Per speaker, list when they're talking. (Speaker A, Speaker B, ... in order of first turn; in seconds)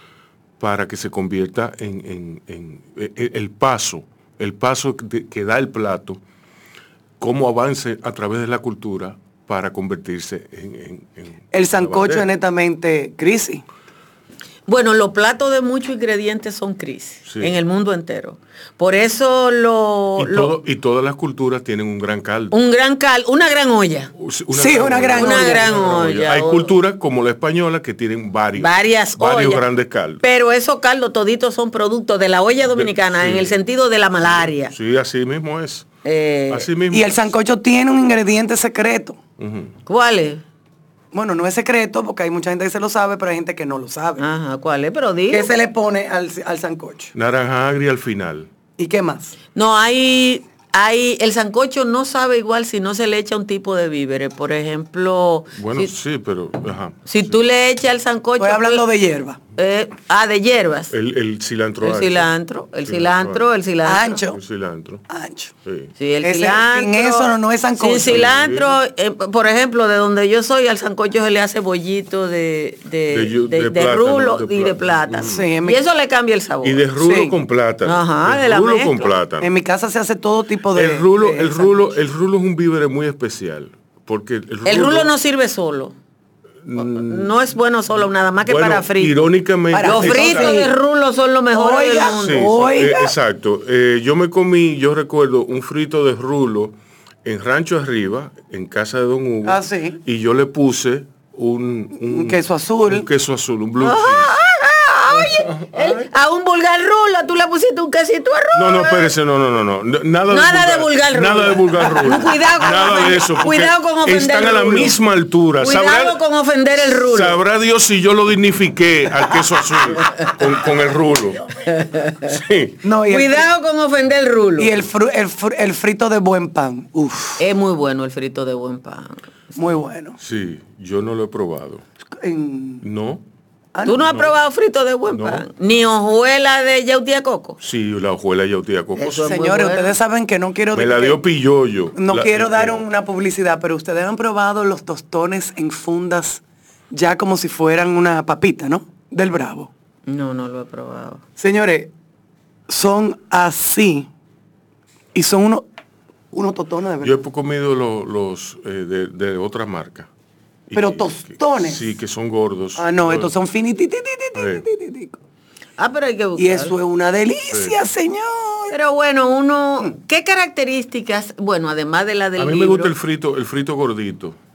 Speaker A: 0.6-6.2, 7.2-12.3, 17.3-17.6, 20.2-22.6, 24.1-30.2, 32.7-33.6, 34.2-35.9, 36.5-37.3, 39.4-39.8, 47.1-48.5, 55.5-57.4, 60.9-62.3, 62.9-63.5, 64.3-65.0, 65.7-65.9, 68.1-68.7, 73.1-75.4, 76.6-79.5, 80.7-85.1, 86.6-87.3, 88.4-90.6, 92.2-104.4, 105.1-106.1, 108.5-116.2, 116.8-121.5, 122.2-122.8, 130.2-131.8, 132.8-133.2, 135.1-135.4, 137.6-139.3, 140.7-142.9, 157.0-160.1, 160.7-163.3, 164.4-164.7, 167.5-167.8, 172.4-174.4
Speaker B: 11.5-13.7, 24.5-25.9, 36.9-39.2, 41.1-44.2, 45.3-47.1, 48.8-49.4, 58.4-59.4, 63.8-64.4, 65.1-65.5, 66.2-68.3, 75.2-75.8, 77.0-77.3, 79.4-81.7, 89.7-90.7, 91.5-93.1, 99.5-100.0, 102.0-103.1, 122.8-123.5, 124.6-127.4, 129.6-130.2, 132.2-132.8, 133.7-134.1, 139.2-141.2, 141.9-149.7, 151.4-151.9, 152.7-154.1, 155.2-155.7, 156.3-157.2, 160.7-161.9, 162.8-165.2, 166.4-168.8
Speaker C: 14.7-20.5, 22.5-24.1, 25.2-26.7, 28.6-29.6, 30.2-34.7, 36.0-36.7, 39.9-40.4, 44.2-45.5, 49.5-55.9, 57.1-58.8, 59.6-60.9, 61.8-64.2, 66.0-76.8, 77.8-79.1, 84.7-86.0, 86.8-89.2, 89.8-92.5, 103.8-109.1, 110.3-115.0, 115.6-117.4, 121.6-122.4, 123.1-124.9, 127.4-129.2, 133.8-137.6, 139.0-140.0, 150.1-151.2, 165.8-166.8, 168.7-172.9